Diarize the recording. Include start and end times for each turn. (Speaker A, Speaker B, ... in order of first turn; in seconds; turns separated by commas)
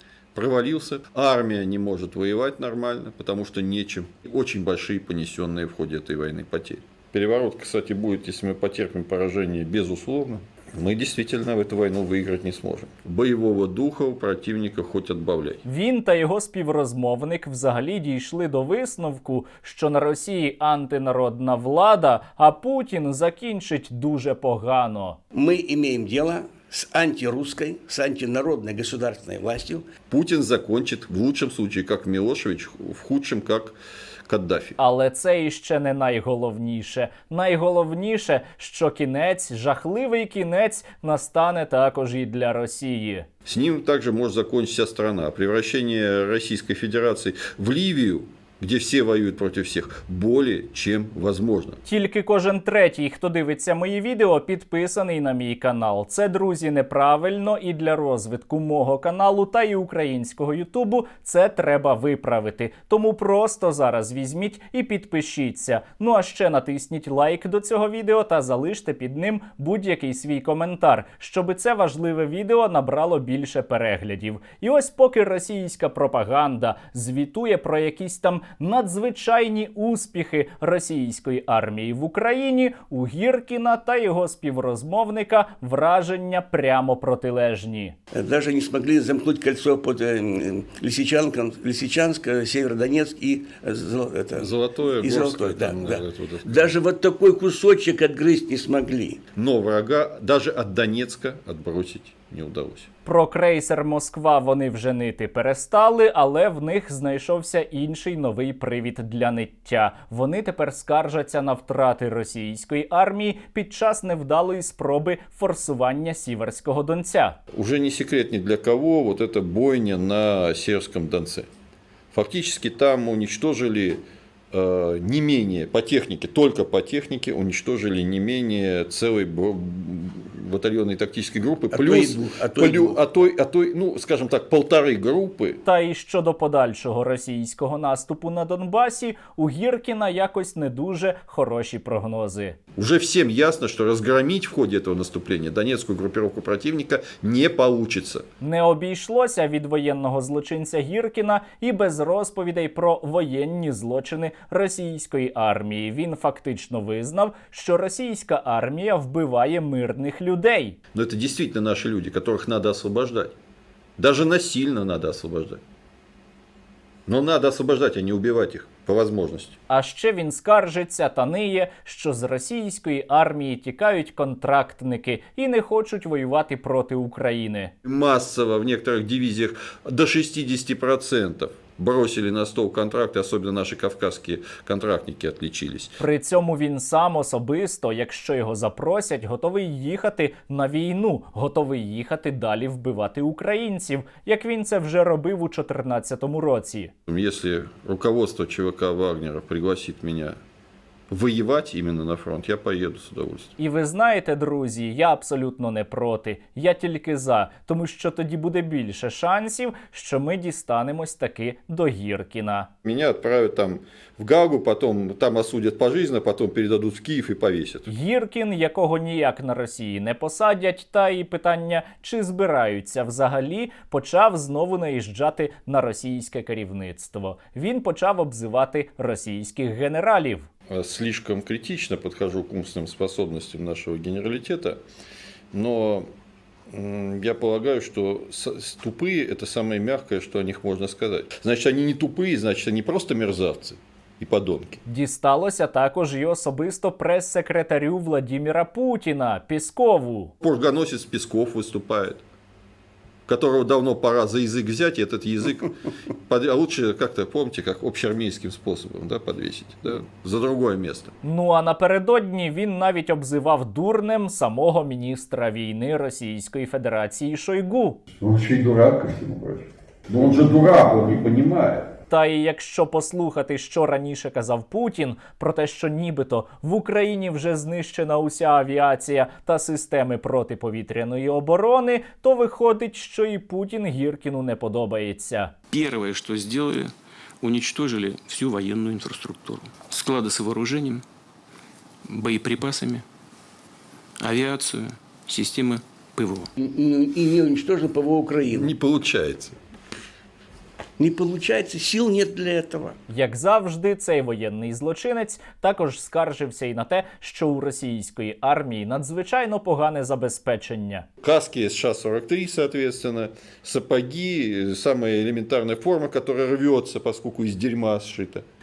Speaker A: 0.3-15.6, Speaker B: 15.6-25.2, Speaker C: 25.3-29.9, Speaker A: 30.1-33.8, Speaker A: 34.3-34.8, Speaker B: 34.8-43.3, Speaker A: 43.5-51.8, Speaker B: 51.9-87.9, Speaker C: 88.1-99.2, Speaker A: 94.3-96.8, Speaker A: 99.3-102.9, Speaker B: 103.0-117.4, Speaker A: 117.5-121.5, Speaker A: 122.1-124.0, Speaker A: 124.5-135.6, Speaker C: 131.7-133.0, Speaker B: 135.6-142.6, Speaker A: 142.8-148.2, Speaker B: 148.4-160.8, Speaker A: 160.9-163.3, Speaker A: 164.0-165.6, Speaker A: 167.1-169.6, Speaker B: 169.7-177.7, Speaker A: 177.8-186.0, Speaker B: 186.0-196.9, Speaker A: 197.1-200.4, Speaker A: 201.1-203.5, Speaker B: 203.6-212.7, Speaker A: 212.8-217.9, Speaker B: 217.9-230.5, Speaker A: 230.7-234.8, Speaker A: 235.5-236.1, Speaker A: 236.7-244.8, Speaker B: 244.8-250.3, Speaker A: 250.4-252.2, Speaker A: 253.3-255.7, Speaker A: 256.2-261.1, Speaker B: 261.2-268.0, Speaker A: 268.2-271.9, Speaker B: 272.1-285.5, Speaker D: 285.7-291.0, Speaker D: 292.0-293.1, Speaker D: 294.2-296.5, Speaker C: 296.6-298.7, Speaker A: 298.5-299.5, Speaker C: 301.0-302.9, Speaker B: 303.1-311.0, Speaker A: 311.2-318.4